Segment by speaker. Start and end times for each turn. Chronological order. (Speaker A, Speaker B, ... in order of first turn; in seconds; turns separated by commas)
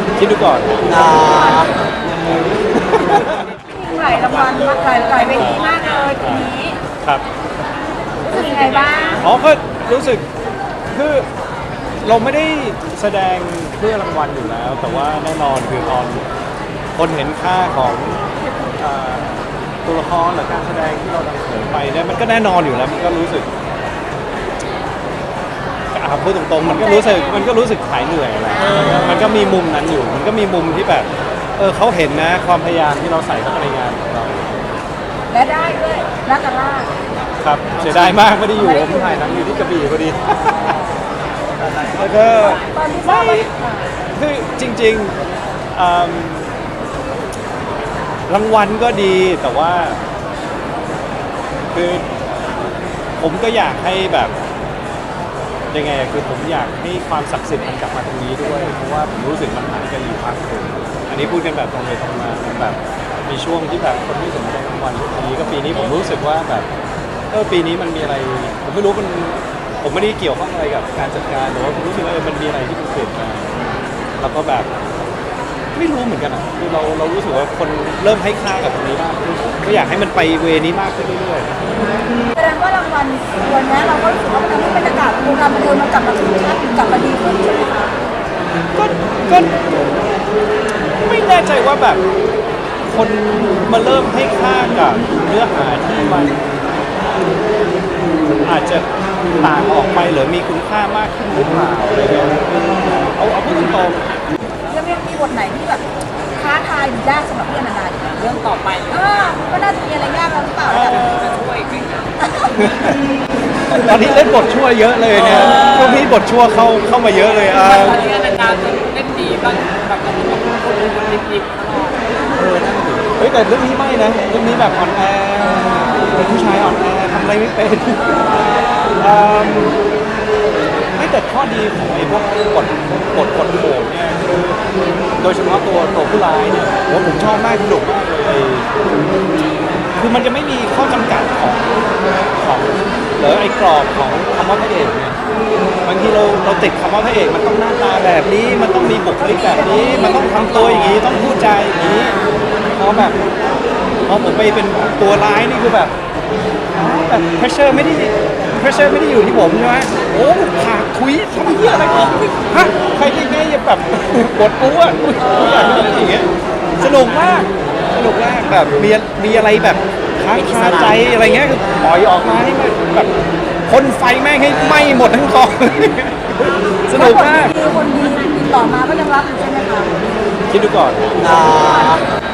Speaker A: 0.2-1.0, Speaker B: 0.9-1.7, Speaker A: 2.9-3.4, Speaker B: 3.7-6.8, Speaker A: 5.3-5.6, Speaker A: 6.2-6.5, Speaker B: 8.2-9.2, Speaker A: 9.2-10.2, Speaker A: 10.9-11.2, Speaker A: 12.0-16.2, Speaker A: 16.9-23.5, Speaker A: 25.9-34.6, Speaker B: 26.6-27.5, Speaker B: 28.5-29.5, Speaker B: 35.3-36.9, Speaker A: 37.4-40.8, Speaker B: 38.5-39.6, Speaker A: 41.7-43.5, Speaker B: 42.6-43.9, Speaker A: 44.1-45.2, Speaker A: 45.7-46.6, Speaker A: 48.3-50.0, Speaker A: 51.7-52.0, Speaker A: 53.2-54.3, Speaker A: 55.7-66.7, Speaker A: 67.3-73.5, Speaker A: 74.2-74.7, Speaker A: 75.7-81.5, Speaker B: 82.3-88.0, Speaker A: 88.7-89.9, Speaker A: 91.0-92.0, Speaker A: 92.9-96.4, Speaker A: 98.4-98.8, Speaker A: 99.4-104.1, Speaker B: 104.7-111.1, Speaker C: 108.3-108.9, Speaker A: 110.7-111.5, Speaker C: 111.1-112.1, Speaker B: 112.2-112.5, Speaker A: 112.5-113.0, Speaker A: 113.7-118.1, Speaker C: 117.9-122.0, Speaker A: 122.3-128.4, Speaker A: 128.9-129.8, Speaker A: 130.9-134.6, Speaker A: 135.2-138.7, Speaker A: 140.0-145.2, Speaker A: 145.8-152.2, Speaker B: 149.2-151.0, Speaker A: 152.8-153.2, Speaker A: 154.1-155.9, Speaker A: 156.7-173.1, Speaker A: 173.7-177.6, Speaker B: 176.9-179.9, Speaker A: 180.5-181.3, Speaker B: 181.5-182.0